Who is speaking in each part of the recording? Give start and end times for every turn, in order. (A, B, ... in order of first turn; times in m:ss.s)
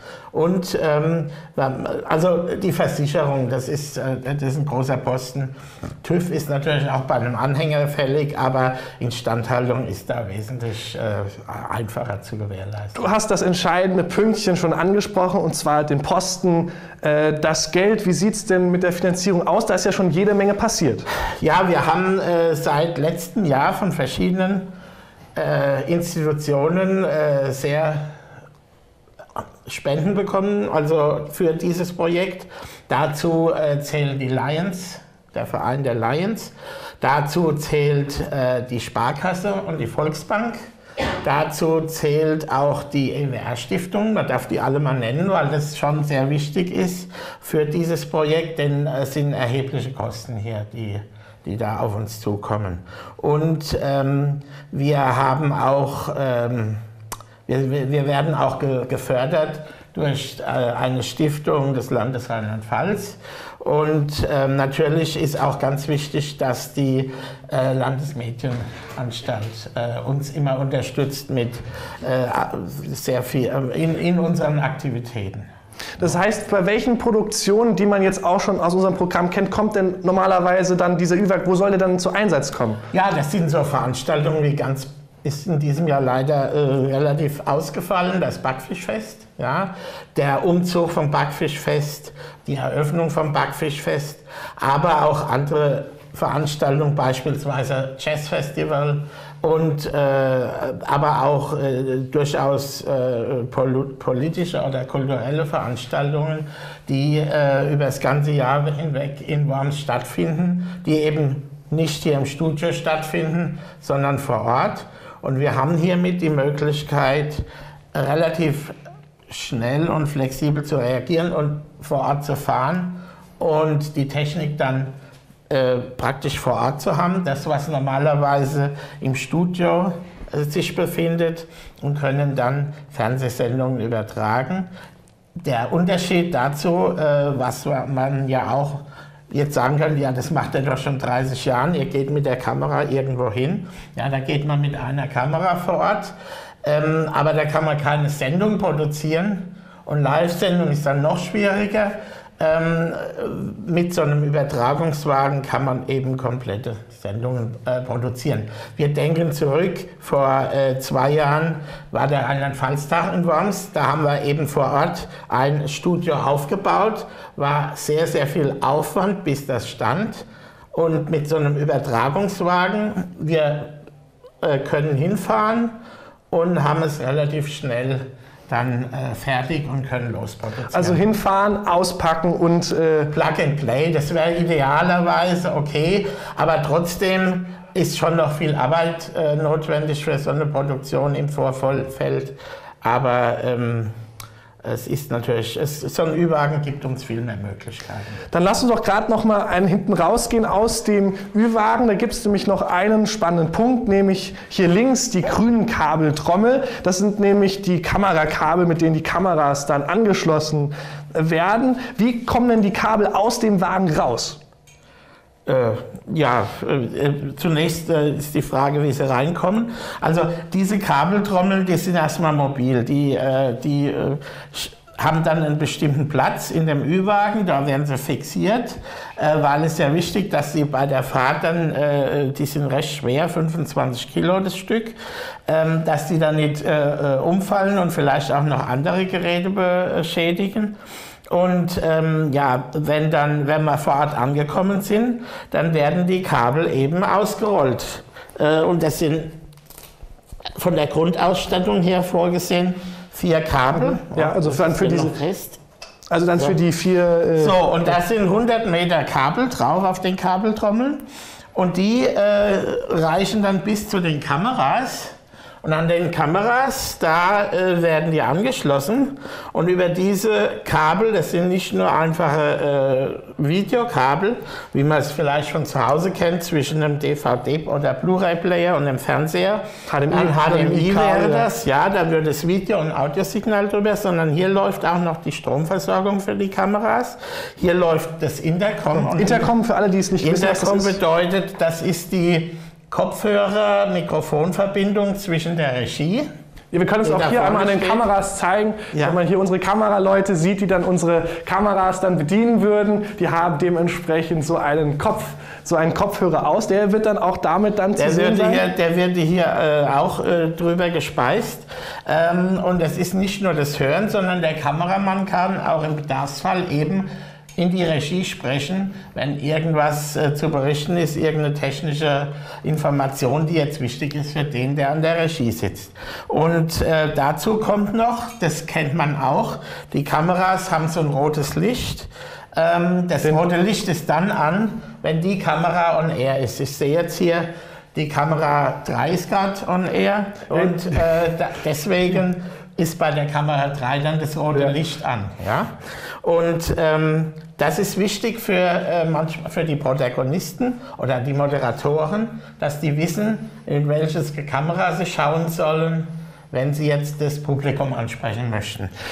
0:00.3-0:13.0 A
0:13.0-0:21.1 B
0:21.4-0:24.7 A
0:25.3-0:28.1 A
0:29.6-0:40.6 A
0:41.2-0:56.8 A
0:57.5-1:15.5 A
1:16.0-1:22.8 B
1:22.9-1:58.7 A
1:59.3-2:04.9 A
2:05.5-2:14.7 A
2:15.4-2:53.8 A
2:54.4-2:55.7 A
2:56.3-3:01.0 A
3:00.7-3:03.1 B
3:03.1-3:13.9 A
3:14.6-3:18.2 A
3:18.3-3:34.4 B
3:35.4-3:55.0 A
3:55.5-4:00.8 A
4:01.3-4:09.3 A
4:10.6-4:15.6 A
4:13.7-4:15.2 B
4:16.1-4:18.0 B
4:17.4-4:49.5 A
4:39.9-4:41.5 B
4:49.0-4:51.0 B
4:50.2-4:56.3 A
4:56.7-5:08.6 B
4:57.0-4:58.0 A
5:08.0-5:58.9 A
5:40.5-5:41.0 B